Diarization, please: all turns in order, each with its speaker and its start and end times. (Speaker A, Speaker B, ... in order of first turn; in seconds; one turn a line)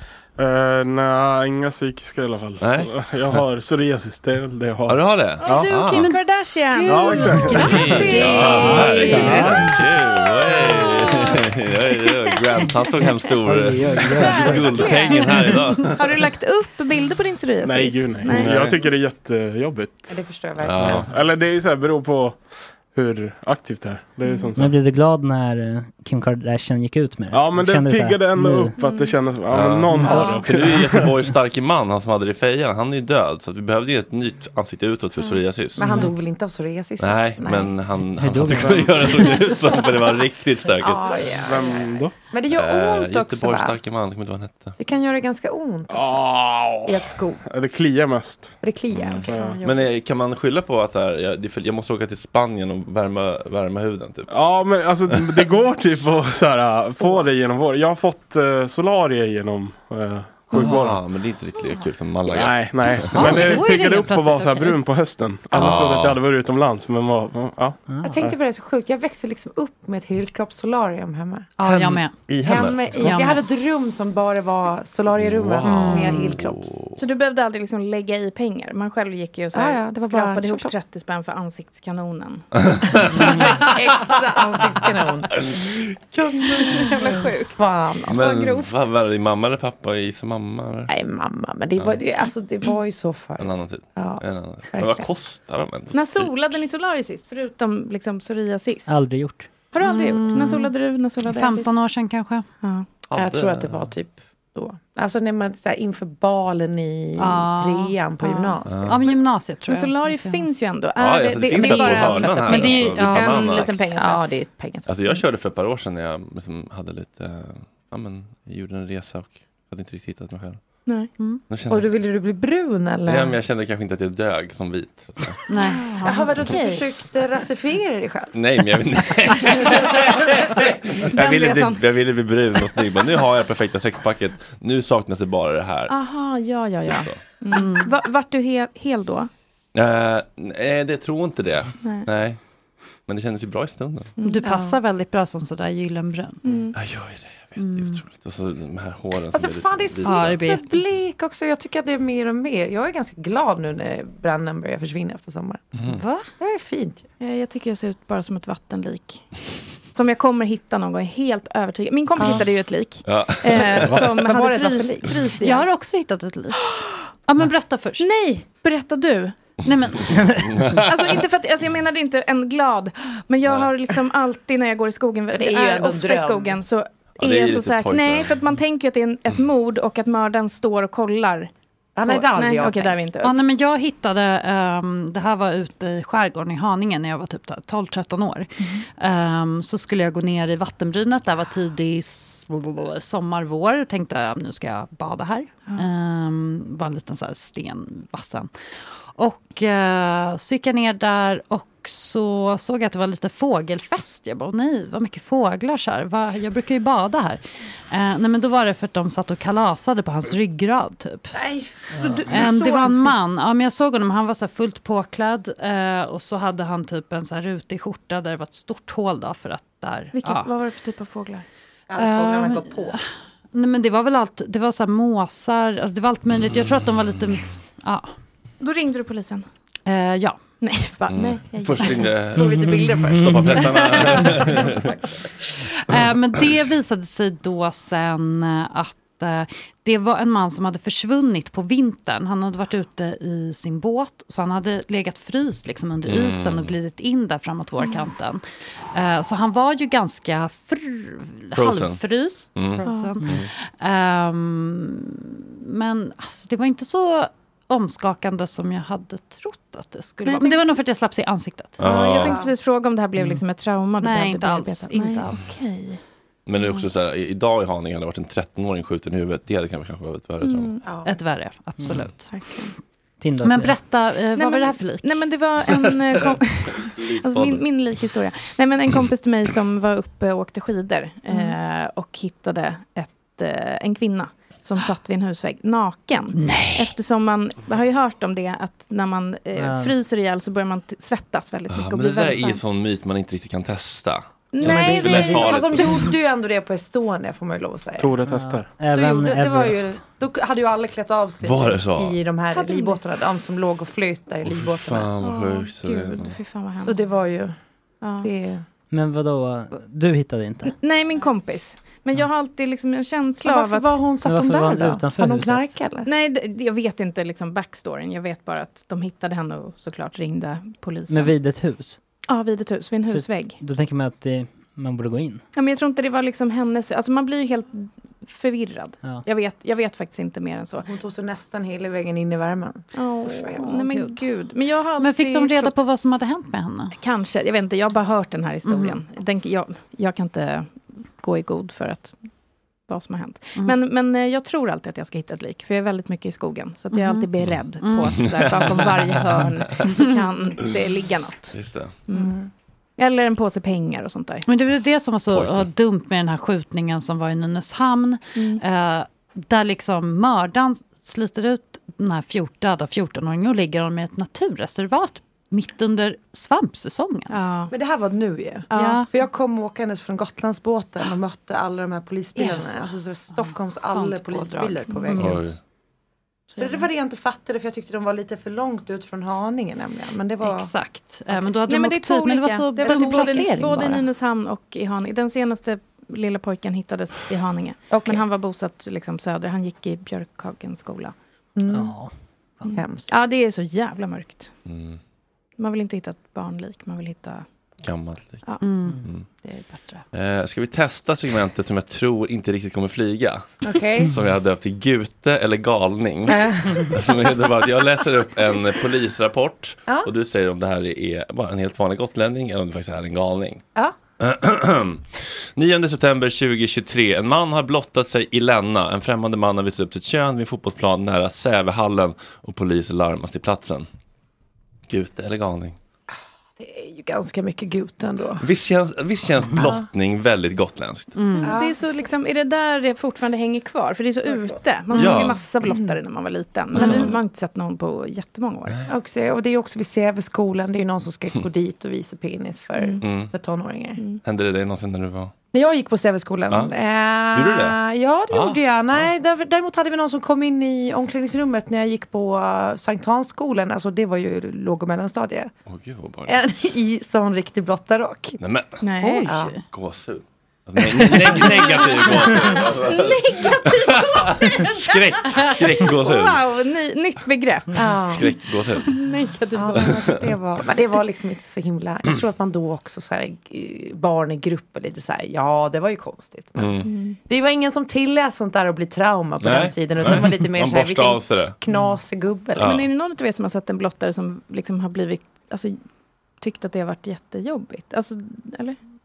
Speaker A: 0.4-5.7
Speaker B: 2.6-3.4
Speaker B: 4.9-6.1
Speaker C: 5.4-9.5
Speaker D: 6.7-9.4
Speaker A: 6.9-7.7
Speaker B: 7.5-16.3
Speaker E: 8.8-9.7
Speaker C: 10.7-11.4
Speaker E: 13.4-15.3
Speaker C: 14.2-15.3
Speaker D: 14.7-15.3
Speaker C: 15.8-18.7
Speaker A: 17.6-20.2
Speaker B: 18.3-18.7
Speaker D: 20.1-21.1
Speaker B: 20.6-21.1
Speaker A: 20.8-24.8
Speaker C: 24.3-24.5
Speaker E: 24.6-28.7
Speaker A: 27.3-31.1
Speaker C: 28.8-29.2
Speaker B: 29.5-36.1
Speaker D: 30.0-30.4
Speaker D: 35.8-37.8
Speaker B: 37.0-41.0
Speaker E: 38.2-39.4
Speaker A: 38.5-38.9
Speaker D: 40.8-43.8
Speaker A: 41.2-42.1
Speaker B: 42.5-44.8
Speaker D: 44.8-47.4
Speaker A: 45.9-48.6
Speaker D: 48.6-49.6
Speaker B: 48.9-54.3
Speaker C: 49.2-49.9
Speaker A: 49.3-49.6
Speaker A: 54.3-61.0
Speaker B: 60.5-63.6
Speaker A: 62.3-68.3
Speaker F: 63.1-64.8
Speaker B: 65.5-66.2
Speaker E: 67.9-68.2
Speaker D: 68.0-71.5
Speaker F: 71.6-72.2
Speaker B: 71.7-73.1
Speaker D: 72.4-76.8
Speaker F: 73.0-73.4
Speaker B: 75.2-77.0
Speaker F: 75.7-76.3
Speaker C: 77.0-82.5
Speaker D: 79.5-80.7
Speaker B: 82.6-83.8
Speaker D: 83.0-85.5
Speaker B: 85.4-87.2
Speaker D: 86.5-88.8
Speaker C: 87.0-87.4
Speaker B: 88.1-90.9
Speaker D: 90.9-95.1
Speaker B: 93.4-96.6
Speaker C: 95.9-99.0
Speaker E: 98.9-99.5
Speaker D: 99.7-100.5
Speaker F: 99.8-100.7
Speaker C: 99.8-101.7
Speaker F: 101.3-102.5
Speaker C: 102.6-102.9
Speaker B: 103.1-103.9
Speaker D: 103.1-109.0
Speaker F: 107.2-108.0
Speaker C: 108.2-108.6
Speaker B: 108.7-109.0
Speaker F: 108.8-110.5
Speaker C: 109.7-114.4
Speaker B: 111.0-113.9
Speaker D: 111.6-113.2
Speaker F: 111.9-113.8
Speaker D: 113.8-115.2
Speaker B: 114.9-120.6
Speaker B: 121.5-121.9
Speaker D: 121.7-123.4
Speaker B: 123.1-125.4
Speaker F: 125.5-125.8
Speaker C: 125.6-126.8
Speaker D: 126.0-128.3
Speaker B: 128.3-136.0
Speaker C: 131.1-131.8
Speaker C: 135.9-139.3
Speaker B: 136.8-137.2
Speaker F: 137.5-137.9
Speaker B: 139.7-142.4
Speaker C: 141.8-142.1
Speaker B: 143.1-144.1
Speaker F: 144.2-146.4
Speaker D: 144.4-144.7
Speaker C: 146.4-146.8
Speaker B: 146.7-150.4
Speaker F: 147.6-148.0
Speaker D: 149.3-155.6
Speaker F: 150.0-150.8
Speaker B: 155.7-156.0
Speaker F: 155.9-156.3
Speaker D: 156.4-157.1
Speaker C: 157.2-159.2
Speaker C: 159.9-165.3
Speaker D: 162.2-162.4
Speaker B: 163.1-164.1
Speaker D: 163.8-165.7
Speaker F: 165.4-168.1
Speaker C: 168.0-169.4
Speaker F: 169.6-170.2
Speaker B: 170.4-171.0
Speaker C: 170.9-181.5
Speaker D: 175.3-176.6
Speaker B: 177.2-178.4
Speaker D: 181.9-183.0
Speaker C: 182.1-183.3
Speaker F: 183.2-198.5
Speaker F: 199.2-211.4
Speaker D: 211.3-211.9
Speaker C: 212.0-213.2
Speaker F: 212.2-220.5
Speaker C: 220.2-221.4
Speaker D: 221.9-223.0
Speaker F: 222.0-223.0
Speaker F: 223.5-228.1
Speaker C: 228.6-229.5
Speaker F: 229.9-230.4
Speaker C: 230.6-232.2
Speaker B: 231.1-234.9
Speaker D: 232.3-234.8
Speaker F: 235.8-261.8
Speaker B: 246.1-246.7
Speaker B: 251.6-252.0
Speaker B: 252.6-253.5
Speaker C: 252.8-253.2
Speaker C: 260.2-260.7
Speaker B: 261.8-262.4
Speaker C: 261.8-266.0
Speaker D: 262.1-262.5
Speaker F: 264.0-265.4
Speaker B: 266.4-270.8
Speaker C: 270.4-270.8
Speaker D: 270.8-271.1
Speaker F: 271.1-272.5
Speaker E: 271.8-272.1
Speaker C: 272.3-272.7
Speaker E: 273.2-273.8
Speaker F: 273.4-275.2
Speaker C: 274.3-292.6
Speaker B: 276.9-277.6
Speaker E: 286.4-286.7
Speaker E: 289.6-289.9
Speaker B: 291.7-296.1
Speaker C: 294.5-296.0
Speaker D: 294.6-298.2
Speaker A: 298.0-298.8
Speaker E: 298.3-300.0
Speaker D: 298.9-305.1
Speaker B: 301.4-302.2
Speaker C: 302.5-303.0
Speaker B: 304.4-306.4
Speaker C: 305.2-307.0
Speaker D: 306.8-307.6
Speaker C: 308.0-308.3
Speaker D: 308.2-308.6
Speaker E: 308.9-310.7
Speaker C: 310.6-314.1
Speaker D: 313.4-316.1
Speaker E: 314.1-315.8
Speaker C: 316.1-321.4
Speaker E: 321.1-322.0
Speaker C: 322.3-323.6
Speaker E: 323.1-325.4
Speaker C: 325.5-330.9
Speaker D: 330.8-333.9
Speaker C: 332.9-335.8
Speaker F: 333.9-334.2
Speaker F: 335.0-336.9
Speaker C: 336.9-342.3
Speaker F: 338.7-339.0
Speaker C: 342.9-352.4
Speaker F: 346.9-347.3
Speaker F: 347.8-348.4
Speaker B: 348.1-349.5
Speaker B: 351.5-351.9
Speaker D: 352.1-352.5
Speaker C: 353.0-354.4
Speaker F: 354.4-367.4
Speaker B: 355.3-355.7
Speaker C: 358.4-358.6
Speaker C: 367.3-367.7
Speaker D: 367.7-375.4
Speaker C: 368.7-369.0
Speaker F: 368.7-369.1
Speaker F: 372.4-375.4
Speaker B: 375.2-375.6
Speaker C: 376.6-376.9
Speaker D: 376.6-380.7
Speaker F: 380.4-383.8
Speaker C: 381.6-391.1
Speaker D: 382.8-384.1
Speaker D: 387.9-388.3
Speaker D: 391.6-392.0
Speaker E: 391.7-392.1
Speaker D: 392.6-393.1
Speaker C: 392.7-394.5
Speaker B: 394.7-395.0
Speaker C: 395.6-397.4
Speaker B: 397.8-399.3
Speaker F: 398.6-399.0
Speaker B: 400.1-413.6
Speaker D: 403.6-404.1
Speaker D: 406.3-406.9
Speaker B: 414.2-423.9
Speaker B: 424.9-425.8
Speaker D: 426.6-428.4
Speaker B: 428.4-431.1
Speaker D: 429.5-429.9
Speaker F: 431.2-431.5
Speaker D: 431.4-432.0
Speaker C: 431.4-438.8
Speaker D: 434.3-435.9
Speaker B: 434.9-435.4
Speaker D: 436.7-437.1
Speaker B: 436.7-437.1
Speaker F: 436.8-437.1
Speaker D: 438.9-444.0
Speaker C: 442.8-443.1
Speaker B: 443.0-443.3
Speaker C: 444.0-444.2
Speaker B: 444.2-445.3
Speaker D: 445.5-455.5
Speaker B: 447.3-447.8
Speaker B: 448.3-449.1
Speaker B: 455.7-456.3
Speaker D: 456.3-458.4
Speaker B: 458.4-458.8
Speaker C: 458.8-459.5
Speaker F: 459.0-459.6
Speaker D: 459.1-459.6
Speaker B: 459.7-466.4
Speaker C: 461.8-468.2
Speaker D: 467.7-468.3
Speaker B: 468.1-468.9
Speaker C: 468.8-470.1
Speaker D: 469.5-482.8
Speaker B: 469.7-470.3
Speaker B: 476.6-476.9
Speaker C: 476.8-477.2
Speaker B: 479.4-481.6
Speaker B: 482.6-482.9
Speaker C: 482.6-485.9
Speaker C: 486.4-488.8